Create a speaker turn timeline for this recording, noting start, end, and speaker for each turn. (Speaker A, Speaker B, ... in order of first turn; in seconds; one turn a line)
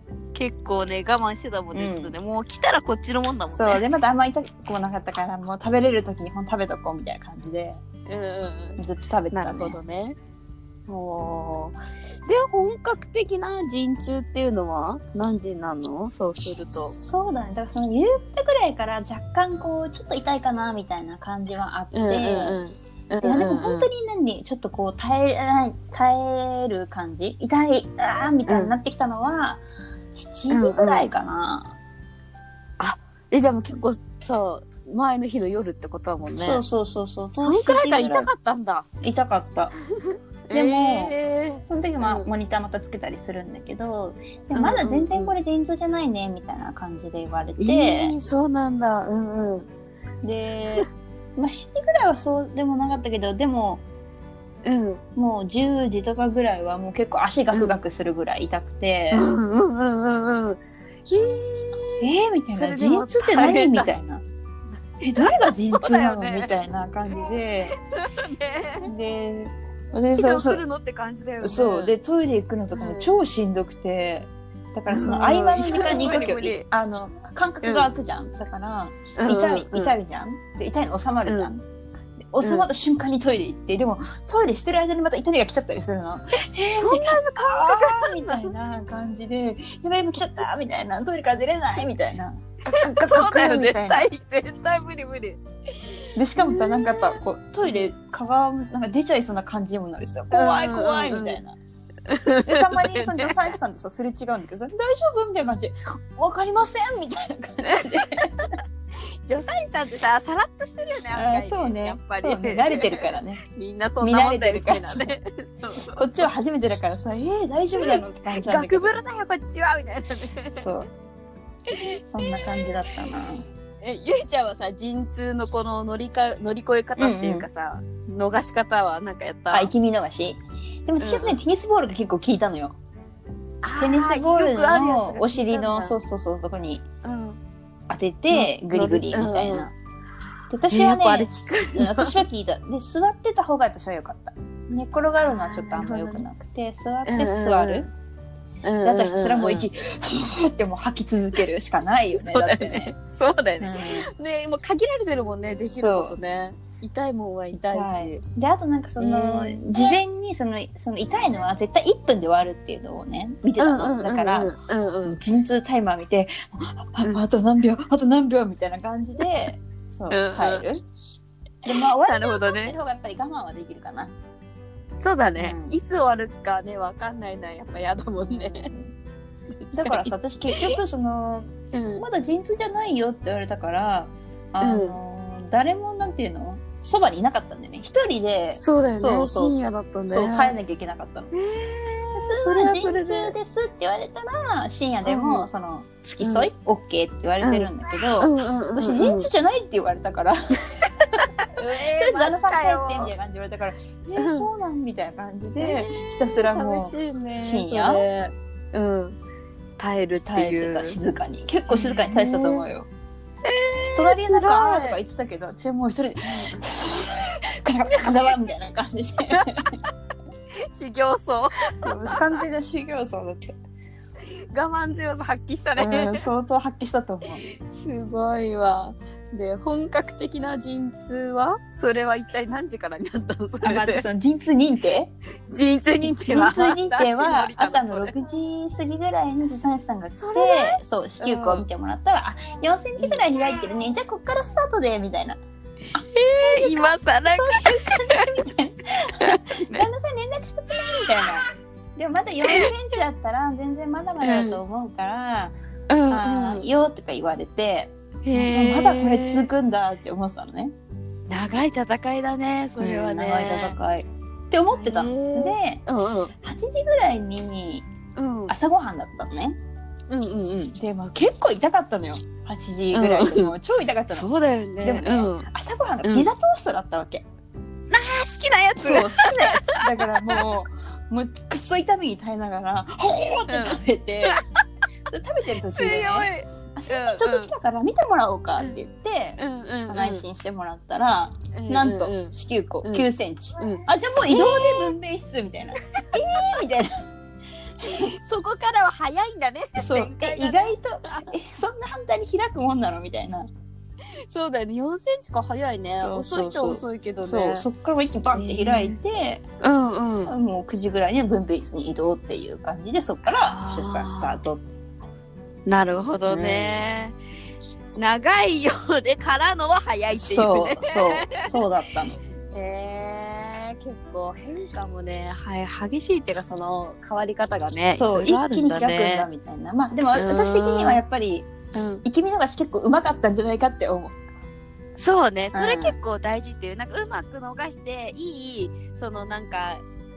Speaker A: 0.3-3.8
Speaker B: 1.7-2.1
Speaker B: 3.5-7.8
Speaker A: 8.1-8.8
Speaker B: 8.8-9.8
Speaker A: 9.3-10.2
Speaker A: 10.9-16.9
Speaker B: 16.8-22.6
Speaker A: 21.9-23.9
Speaker B: 23.2-29.6
Speaker A: 28.5-28.7
Speaker B: 30.1-31.7
Speaker A: 30.5-31.1
Speaker A: 32.8-36.6
Speaker B: 36.4-38.3
Speaker A: 37.4-38.9
Speaker B: 39.0-39.7
Speaker A: 40.5-42.3
Speaker B: 40.5-41.1
Speaker B: 41.6-48.1
Speaker A: 44.5-45.3
Speaker A: 47.6-49.7
Speaker B: 50.2-53.8
Speaker A: 54.6-55.0
Speaker B: 55.1-59.3
Speaker A: 57.5-57.8
Speaker A: 59.1-63.9
Speaker B: 62.0-64.2
Speaker B: 65.0-67.7
Speaker A: 65.2-66.6
Speaker A: 67.9-68.9
Speaker B: 68.8-70.6
Speaker A: 70.1-71.9
Speaker B: 71.4-81.6
Speaker A: 72.7-73.2
Speaker A: 74.9-76.6
Speaker A: 77.6-77.9
Speaker A: 79.2-79.9
Speaker A: 81.3-81.5
Speaker B: 82.3-94.1
Speaker A: 82.4-82.7
Speaker A: 86.7-88.5
Speaker A: 92.7-95.4
Speaker B: 96.2-101.5
Speaker A: 96.3-97.9
Speaker A: 100.3-101.4
Speaker A: 102.1-103.5
Speaker B: 102.5-108.3
Speaker A: 107.7-108.4
Speaker A: 109.3-116.3
Speaker B: 111.1-113.4
Speaker B: 114.0-115.1
Speaker B: 115.9-119.0
Speaker A: 117.8-120.7
Speaker B: 120.5-120.9
Speaker B: 122.0-123.5
Speaker A: 123.8-129.7
Speaker B: 127.0-127.5
Speaker B: 129.5-132.8
Speaker A: 131.0-131.4
Speaker A: 133.6-135.9
Speaker B: 133.8-136.8
Speaker A: 137.0-137.4
Speaker B: 137.9-139.7
Speaker A: 138.3-139.7
Speaker B: 140.5-147.9
Speaker A: 140.7-142.2
Speaker A: 145.2-146.2
Speaker A: 147.1-147.9
Speaker A: 148.6-149.7
Speaker B: 148.8-152.9
Speaker A: 152.2-158.2
Speaker B: 153.6-154.1
Speaker B: 155.7-156.2
Speaker B: 157.5-164.5
Speaker A: 159.0-159.9
Speaker A: 163.6-165.2
Speaker B: 165.0-170.8
Speaker A: 170.1-170.6
Speaker B: 171.6-174.1
Speaker A: 172.0-172.7
Speaker A: 175.0-178.7
Speaker B: 175.4-175.8
Speaker B: 178.3-178.9
Speaker A: 179.6-180.8
Speaker B: 179.7-189.5
Speaker A: 181.7-182.0
Speaker A: 184.6-185.0
Speaker A: 188.5-190.5
Speaker B: 190.1-191.3
Speaker A: 191.3-193.3
Speaker B: 192.2-200.4
Speaker A: 195.1-195.4
Speaker A: 196.2-196.5
Speaker A: 197.4-199.3
Speaker B: 201.6-208.0
Speaker A: 201.6-203.1
Speaker A: 204.1-204.5
Speaker A: 205.6-209.2
Speaker A: 209.8-211.0
Speaker B: 210.2-212.9
Speaker A: 211.7-212.7
Speaker A: 213.4-215.0
Speaker B: 213.9-219.7
Speaker A: 216.2-216.7
Speaker A: 217.9-218.3
Speaker A: 219.3-219.9
Speaker A: 220.6-222.4
Speaker B: 221.8-223.6
Speaker A: 224.5-226.2
Speaker B: 225.8-227.4
Speaker A: 227.4-234.0
Speaker B: 233.6-235.1
Speaker A: 235.5-238.1
Speaker B: 236.3-245.4
Speaker A: 240.2-241.6
Speaker A: 245.9-248.4
Speaker B: 245.9-251.4
Speaker A: 249.2-249.9
Speaker B: 252.0-255.5
Speaker A: 254.2-254.6
Speaker A: 255.9-256.6
Speaker B: 256.1-260.7
Speaker A: 258.2-259.5
Speaker A: 261.3-263.8
Speaker B: 262.8-265.8
Speaker A: 264.7-266.3
Speaker B: 266.4-267.8
Speaker A: 268.1-268.5
Speaker B: 268.5-269.6
Speaker A: 270.1-270.8
Speaker B: 270.8-274.3
Speaker A: 272.9-273.5
Speaker A: 274.1-275.5
Speaker B: 274.8-277.2
Speaker A: 276.0-276.3
Speaker A: 277.9-280.4
Speaker B: 278.8-284.4
Speaker A: 283.5-284.4
Speaker B: 285.1-296.9
Speaker A: 285.6-287.5
Speaker A: 289.4-290.2
Speaker A: 291.5-293.1
Speaker A: 293.6-294.9
Speaker B: 297.8-298.1
Speaker A: 297.9-301.3
Speaker B: 299.8-303.5
Speaker A: 304.3-307.6
Speaker B: 306.0-309.4
Speaker A: 308.3-309.0
Speaker A: 309.6-310.3
Speaker B: 310.3-314.7
Speaker A: 313.3-314.4
Speaker A: 315.6-317.1
Speaker B: 316.2-316.8
Speaker A: 317.9-321.5
Speaker B: 320.1-322.2
Speaker A: 322.5-329.3
Speaker B: 328.0-331.5
Speaker A: 330.1-331.0
Speaker A: 331.7-332.0
Speaker B: 332.0-334.1
Speaker A: 335.0-339.8
Speaker B: 335.5-335.9